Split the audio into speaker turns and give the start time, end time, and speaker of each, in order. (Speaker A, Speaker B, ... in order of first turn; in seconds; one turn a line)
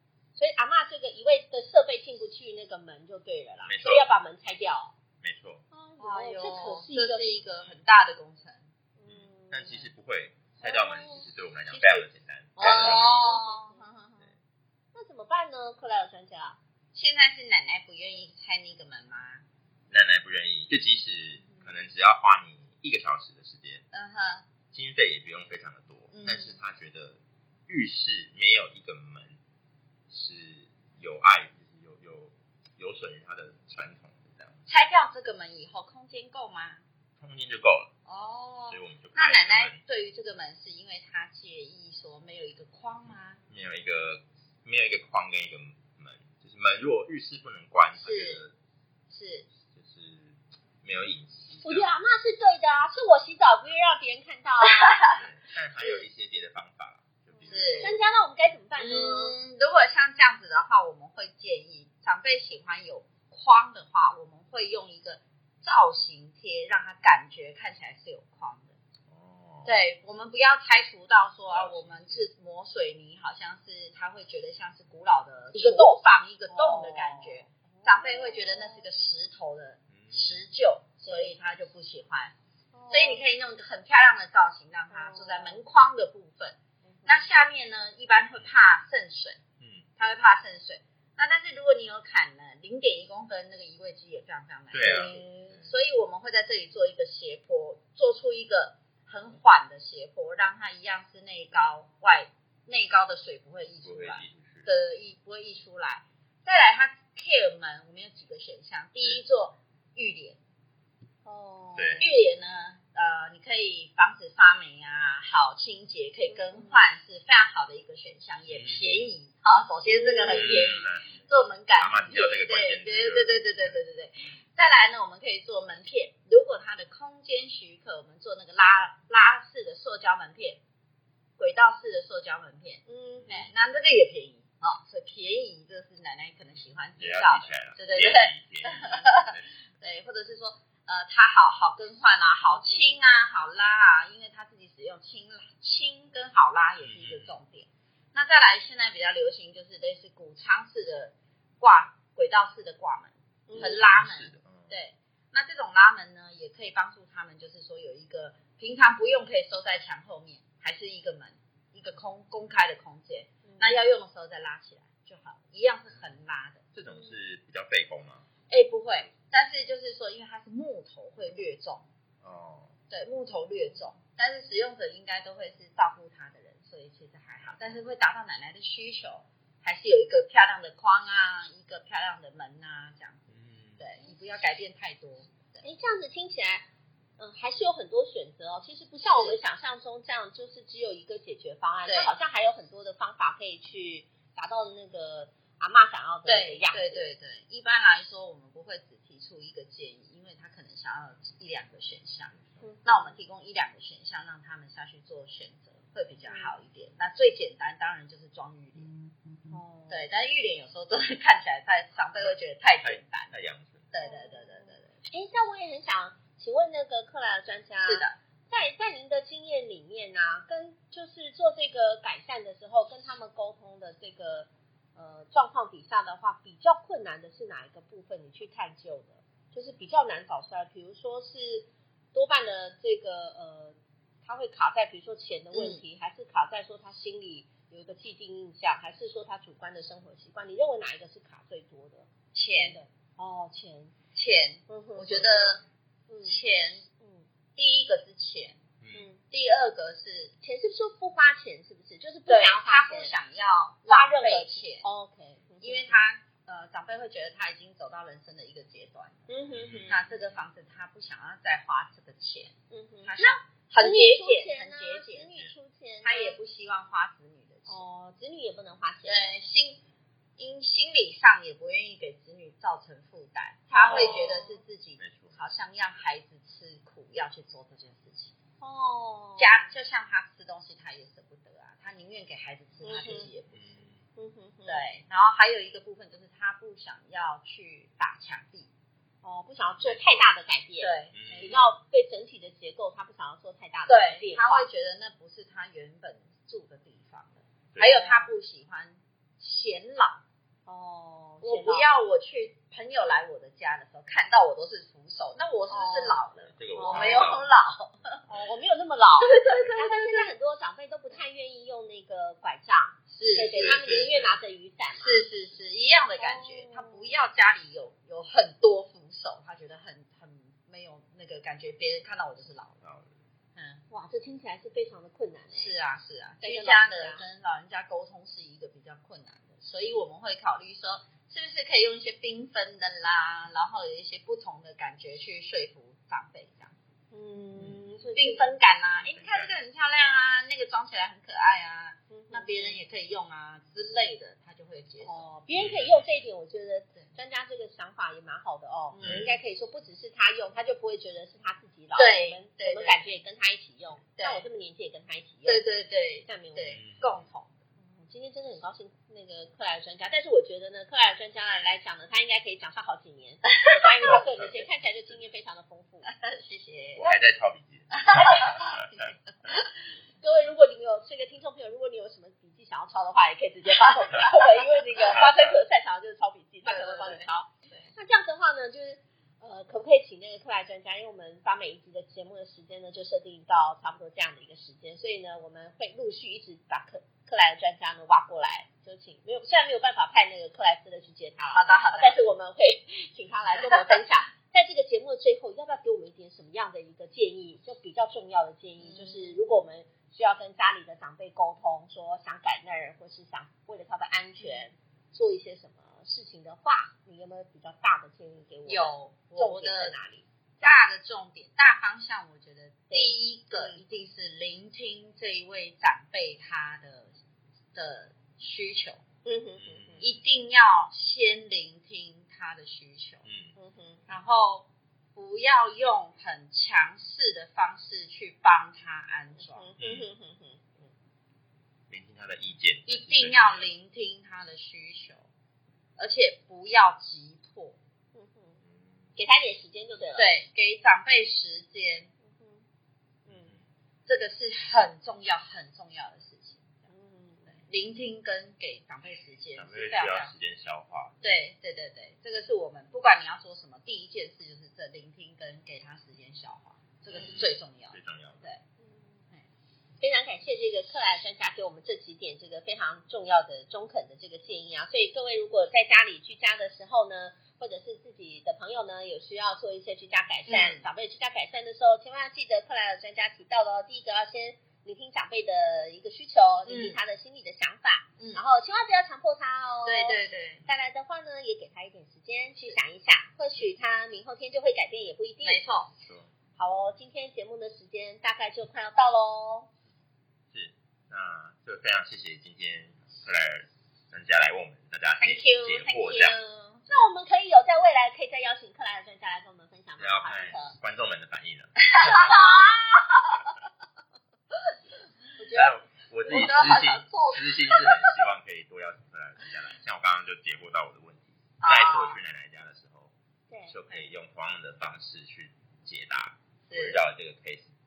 Speaker A: 0.3-4.9
Speaker B: 3.6-4.1
Speaker B: 5.2-5.6
Speaker A: 5.7-7.3
Speaker C: 6.0-8.7
Speaker A: 9.0-9.9
Speaker B: 9.1-13.2
Speaker A: 10.6-12.0
Speaker A: 12.6-13.8
Speaker C: 12.6-14.2
Speaker A: 14.9-16.6
Speaker C: 16.9-19.4
Speaker B: 19.9-23.8
Speaker C: 23.9-24.4
Speaker B: 24.7-29.4
Speaker C: 26.1-26.6
Speaker B: 30.1-34.6
Speaker C: 34.7-36.8
Speaker B: 37.2-37.9
Speaker C: 38.0-43.4
Speaker B: 38.7-39.8
Speaker B: 43.5-48.5
Speaker C: 48.0-48.4
Speaker C: 49.1-49.5
Speaker B: 49.7-51.9
Speaker A: 51.6-55.0
Speaker C: 54.8-55.2
Speaker B: 55.1-58.0
Speaker A: 57.4-59.4
Speaker C: 57.5-58.0
Speaker C: 58.8-68.7
Speaker B: 69.1-69.7
Speaker C: 69.6-82.3
Speaker B: 71.5-72.2
Speaker A: 75.5-76.0
Speaker A: 76.5-78.8
Speaker B: 79.9-80.3
Speaker A: 81.0-81.3
Speaker A: 82.7-83.2
Speaker C: 82.9-89.4
Speaker A: 84.9-85.6
Speaker A: 86.8-87.3
Speaker B: 89.6-89.8
Speaker C: 90.0-110.4
Speaker B: 94.7-95.6
Speaker A: 94.8-95.6
Speaker B: 103.8-104.7
Speaker A: 111.2-112.1
Speaker B: 111.8-112.0
Speaker C: 112.0-130.6
Speaker A: 116.3-116.8
Speaker B: 118.5-119.1
Speaker A: 119.8-120.8
Speaker B: 120.3-121.2
Speaker B: 121.8-123.8
Speaker C: 131.4-166.6
Speaker A: 132.9-133.3
Speaker B: 133.2-133.5
Speaker B: 137.0-139.4
Speaker A: 142.4-142.9
Speaker B: 146.8-147.3
Speaker A: 153.5-153.8
Speaker B: 153.5-154.8
Speaker A: 163.4-163.8
Speaker B: 166.7-168.2
Speaker A: 166.9-167.2
Speaker C: 168.5-171.9
Speaker B: 172.2-172.7
Speaker C: 172.9-185.6
Speaker B: 183.3-183.8
Speaker A: 185.6-186.6
Speaker A: 187.2-197.1
Speaker C: 189.1-189.4
Speaker C: 191.8-192.1
Speaker C: 196.2-202.3
Speaker B: 202.3-202.6
Speaker A: 202.6-203.1
Speaker C: 202.8-208.9
Speaker A: 206.3-206.5
Speaker A: 209.5-210.1
Speaker C: 209.9-213.3
Speaker B: 212.2-213.9
Speaker C: 213.9-214.9
Speaker A: 214.0-243.9
Speaker C: 217.8-218.2
Speaker C: 235.5-235.8
Speaker C: 242.3-242.8
Speaker C: 244.1-245.6
Speaker A: 244.7-246.4
Speaker C: 246.2-246.8
Speaker A: 247.0-247.2
Speaker C: 247.6-248.6
Speaker B: 248.8-249.1
Speaker A: 248.9-249.2
Speaker C: 249.3-250.3
Speaker A: 250.4-253.1
Speaker C: 252.3-254.8
Speaker A: 253.8-256.0
Speaker C: 255.6-259.2
Speaker A: 259.3-260.1
Speaker B: 259.5-260.0
Speaker C: 259.9-265.3
Speaker A: 262.7-266.4
Speaker C: 266.0-267.8
Speaker A: 267.7-269.2
Speaker C: 269.0-269.8
Speaker C: 270.4-278.3
Speaker A: 273.7-274.6
Speaker B: 273.9-274.3
Speaker B: 275.0-275.4
Speaker A: 278.6-279.7
Speaker C: 279.4-283.6
Speaker A: 282.8-283.3
Speaker B: 283.5-284.0
Speaker A: 284.1-284.8
Speaker C: 284.6-288.7
Speaker A: 289.2-294.6
Speaker B: 289.8-290.3
Speaker C: 290.8-291.7
Speaker B: 291.1-291.5
Speaker C: 293.9-300.2
Speaker A: 297.8-298.3
Speaker A: 300.6-301.9
Speaker C: 301.4-308.2
Speaker A: 305.7-306.2
Speaker B: 306.5-307.5
Speaker A: 306.7-307.3
Speaker A: 308.3-315.2
Speaker C: 309.2-310.3
Speaker C: 313.1-313.8
Speaker B: 313.4-314.4
Speaker C: 315.0-322.8
Speaker A: 316.2-317.2
Speaker B: 322.8-323.1
Speaker C: 323.6-323.8
Speaker A: 323.9-325.7
Speaker C: 325.5-336.7
Speaker A: 326.4-327.2
Speaker A: 337.1-338.5
Speaker B: 337.6-338.1
Speaker C: 338.1-345.2
Speaker B: 338.9-339.5
Speaker A: 342.1-342.8
Speaker A: 345.0-355.6
Speaker B: 345.5-346.1
Speaker C: 348.9-349.3
Speaker B: 349.0-349.4
Speaker C: 352.0-353.1
Speaker C: 354.1-354.4
Speaker C: 355.4-357.6
Speaker A: 356.2-356.8
Speaker B: 356.7-357.2
Speaker A: 357.8-366.1
Speaker C: 363.5-364.2
Speaker C: 366.1-367.1
Speaker B: 366.9-368.8
Speaker C: 367.9-369.7
Speaker A: 370.2-410.8
Speaker C: 376.6-377.9
Speaker C: 391.5-392.2
Speaker C: 398.8-399.4
Speaker C: 408.7-409.9
Speaker C: 410.6-417.1
Speaker A: 412.9-413.8
Speaker C: 417.7-419.0
Speaker A: 419.2-420.0
Speaker B: 419.6-420.1
Speaker C: 420.0-423.2
Speaker B: 423.2-423.5
Speaker A: 423.6-424.0
Speaker C: 424.1-429.7
Speaker A: 429.4-430.9
Speaker B: 429.8-430.1
Speaker B: 431.9-433.7
Speaker C: 432.9-435.3
Speaker C: 436.0-437.8
Speaker A: 438.1-438.6
Speaker B: 438.6-439.1
Speaker A: 439.1-440.3
Speaker C: 440.2-442.1
Speaker A: 442.2-442.6
Speaker B: 443.2-443.6
Speaker C: 444.1-446.7
Speaker A: 446.9-447.6
Speaker C: 447.6-450.3
Speaker B: 449.6-451.2
Speaker C: 451.2-458.6
Speaker B: 457.1-458.5
Speaker A: 458.8-459.2
Speaker A: 460.0-485.6
Speaker C: 470.5-470.9
Speaker C: 476.7-477.0
Speaker C: 479.8-480.6
Speaker C: 485.4-485.9
Speaker A: 486.6-489.7
Speaker B: 490.5-496.3
Speaker C: 495.2-496.8
Speaker A: 496.9-500.8
Speaker B: 500.0-501.7
Speaker C: 501.8-503.4
Speaker A: 502.2-502.7
Speaker C: 505.4-505.7
Speaker B: 505.5-513.1
Speaker C: 506.3-508.2
Speaker C: 511.6-512.2
Speaker A: 513.5-513.7
Speaker B: 513.7-517.7
Speaker C: 516.7-517.0